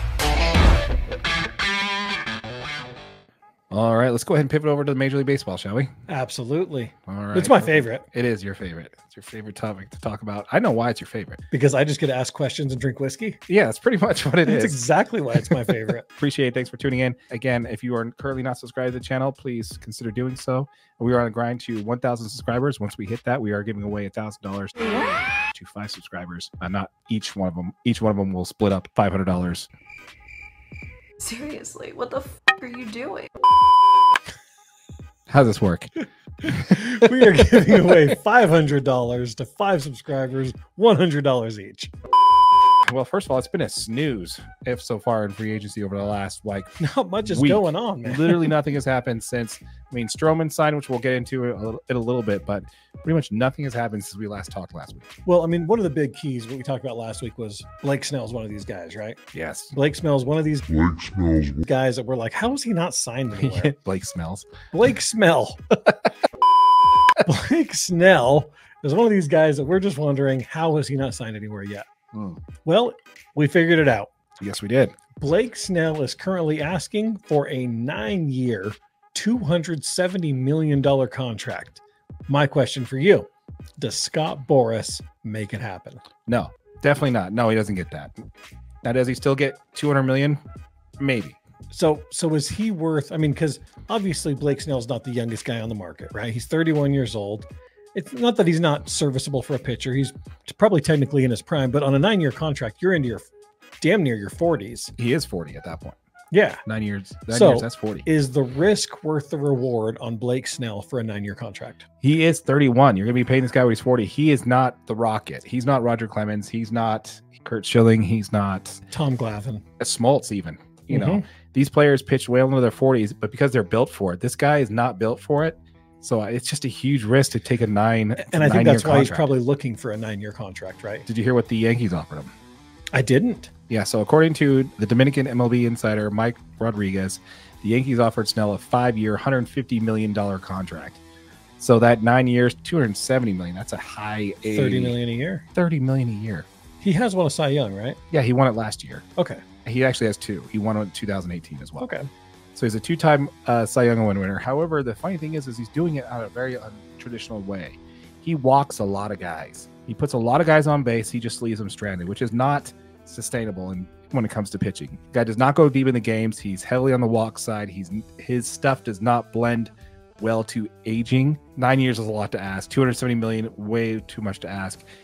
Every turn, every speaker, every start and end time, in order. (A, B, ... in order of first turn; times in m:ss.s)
0:03.7-0:05.9 A
0:06.1-0:08.1 B
0:07.1-0:11.4 A
0:11.5-0:13.4 B
0:13.5-0:14.8 A
0:14.4-0:16.0 B
0:16.1-0:29.7 A
0:31.2-0:33.3 C
0:35.3-0:35.9 A
0:36.4-0:36.8 A
0:36.5-0:41.9 B
0:42.8-0:46.8 A
0:46.8-0:48.5 B
0:47.3-0:55.1 A
0:55.3-0:59.2 B
0:59.3-0:59.7 A
0:59.7-1:03.7 B
1:03.4-1:04.5 A
1:04.7-1:05.6 B
1:07.2-1:11.9 B
1:12.1-1:12.4 A
1:12.6-1:14.1 B
1:14.4-1:15.0 A
1:15.2-1:26.0 B
1:26.3-1:28.1 A
1:28.8-1:30.4 A
1:31.0-1:31.4 A
1:31.7-1:43.3 B
1:43.8-1:44.9 B
1:45.0-1:46.0 A
1:46.3-1:46.6 B
1:46.7-1:48.1 A
1:47.3-1:51.8 B
1:52.0-1:58.8 A
1:58.9-1:59.6 B
1:59.8-2:09.3 A
2:00.9-2:01.2 B
2:08.2-2:11.1 B
2:11.1-2:12.3 A
2:12.9-2:13.5 B
2:13.7-2:21.0 A
2:21.6-2:25.0 A
2:24.5-2:25.4 B
2:25.6-2:26.5 A
2:26.8-2:28.0 B
2:28.1-2:29.0 A
2:29.2-2:29.4 B
2:29.6-2:31.9 A
2:31.8-2:32.1 B
2:32.6-2:54.9 A